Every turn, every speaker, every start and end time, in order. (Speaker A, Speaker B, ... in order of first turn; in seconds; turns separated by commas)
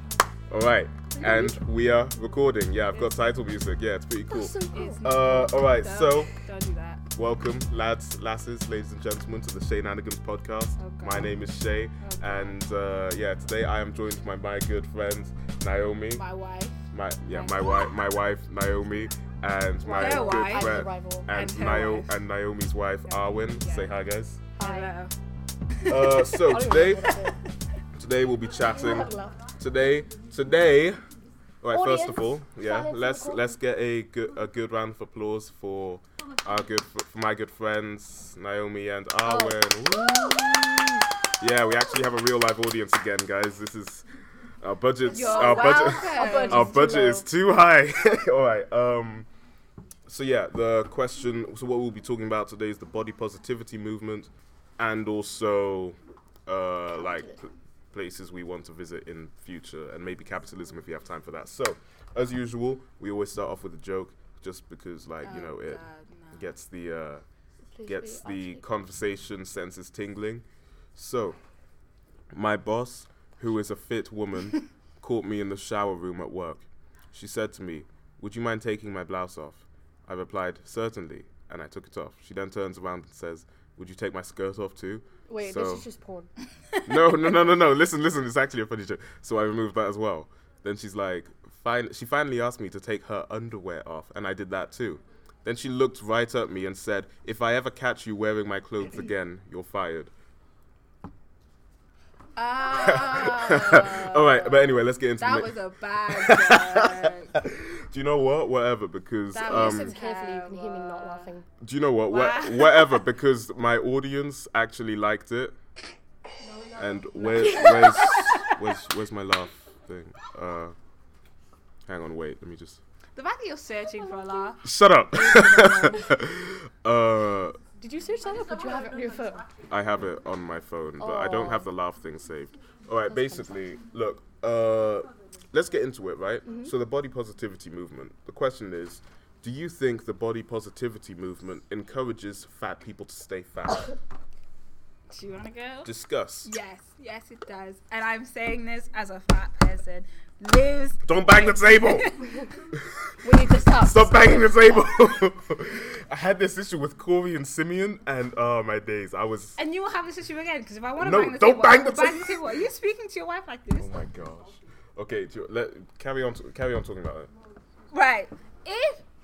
Speaker A: 0.5-6.3, Speaker B: 1.2-1.6, Speaker B: 2.9-3.2, Speaker C: 4.3-5.1, Speaker B: 4.7-7.1, Speaker A: 7.1-16.2, Speaker B: 10.8-11.4, Speaker B: 12.0-12.6, Speaker B: 16.1-17.9, Speaker A: 16.9-24.5, Speaker C: 19.8-21.4, Speaker B: 19.9-22.2, Speaker B: 23.0-23.9, Speaker C: 24.5-24.9, Speaker B: 24.6-25.1, Speaker A: 25.8-27.1, Speaker B: 25.9-27.4, Speaker C: 26.4-27.4, Speaker A: 27.9-31.0, Speaker C: 28.7-29.5, Speaker A: 31.6-44.0, Speaker C: 31.7-33.6, Speaker C: 39.2-40.8, Speaker A: 44.6-49.3, Speaker B: 45.1-46.8, Speaker C: 45.2-47.3, Speaker A: 50.1-67.2, Speaker B: 65.2-66.5, Speaker C: 67.7-68.6, Speaker A: 67.9-71.4, Speaker A: 72.3-85.8, Speaker C: 85.3-86.3, Speaker A: 86.8-100.1, Speaker B: 102.4-107.3, Speaker A: 102.7-105.6, Speaker A: 106.1-110.0, Speaker B: 109.3-111.4, Speaker C: 109.4-111.5, Speaker A: 111.6-115.6, Speaker B: 112.1-113.0, Speaker A: 116.7-120.8, Speaker B: 117.3-118.6, Speaker A: 121.9-122.8, Speaker B: 123.2-126.1, Speaker C: 123.9-124.6, Speaker A: 124.6-127.6, Speaker C: 127.8-129.6, Speaker A: 129.7-143.9, Speaker C: 131.0-131.7, Speaker C: 133.1-133.7, Speaker C: 136.4-136.7, Speaker B: 145.1-145.9, Speaker A: 145.8-146.5, Speaker B: 146.4-152.5, Speaker A: 151.0-152.1, Speaker C: 152.2-152.5, Speaker C: 153.2-154.7, Speaker A: 153.8-159.6, Speaker B: 159.6-163.9, Speaker A: 161.0-162.7, Speaker A: 163.8-167.3, Speaker B: 167.9-169.0